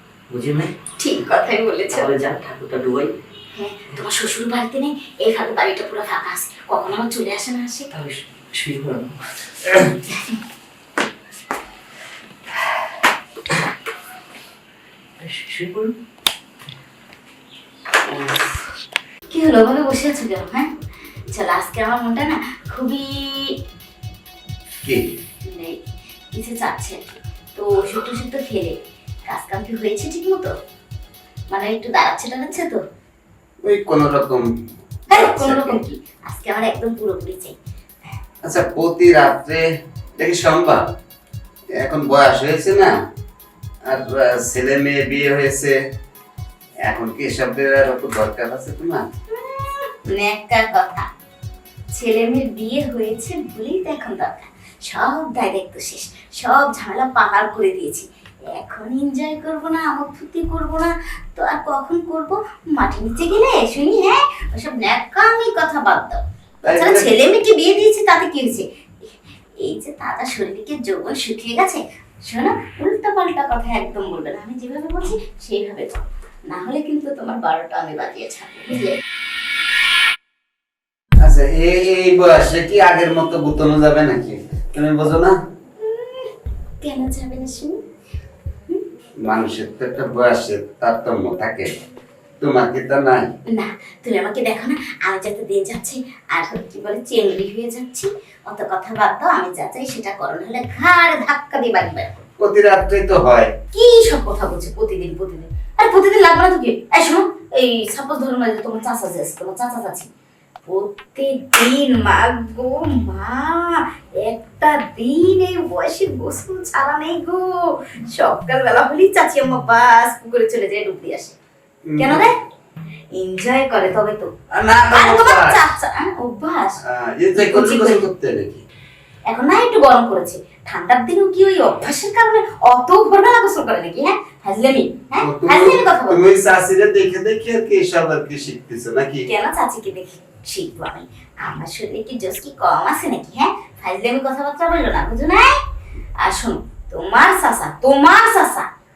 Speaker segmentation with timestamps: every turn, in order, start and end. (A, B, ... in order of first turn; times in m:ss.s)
0:00.3-0:00.7 A
0:01.0-0:02.1 B
0:01.9-0:03.1 A
0:03.5-0:07.9 B
0:07.9-0:10.0 A
0:15.2-0:15.9 A
0:19.3-0:20.7 B
0:21.3-0:23.6 B
0:25.4-0:25.8 B
0:26.3-0:28.8 B
0:29.3-0:30.5 B
0:31.5-0:32.8 B
0:33.6-0:34.4 C
0:35.1-0:35.8 C
0:35.1-0:37.6 B
0:38.4-0:39.6 C
0:40.2-0:40.8 C
0:41.8-0:42.9 C
0:43.9-0:45.8 C
0:46.9-0:49.0 C
0:49.3-0:51.1 B
0:51.9-1:19.0 B
1:06.6-1:07.1 C
1:21.2-1:25.4 C
1:25.8-1:27.8 B
1:29.2-1:31.7 C
1:32.4-1:33.3 C
1:33.5-1:42.2 B
1:42.4-1:43.5 C
1:43.7-1:50.1 B
1:50.7-2:01.4 B
2:01.9-2:02.2 C
2:02.0-2:02.3 B
2:03.1-2:04.3 B
2:04.5-2:05.6 C
2:04.9-2:06.8 B
2:06.8-2:08.6 C
2:07.4-2:08.0 B
2:09.3-2:16.2 B
2:15.2-2:19.3 C
2:19.3-2:25.5 B
2:26.2-2:28.7 B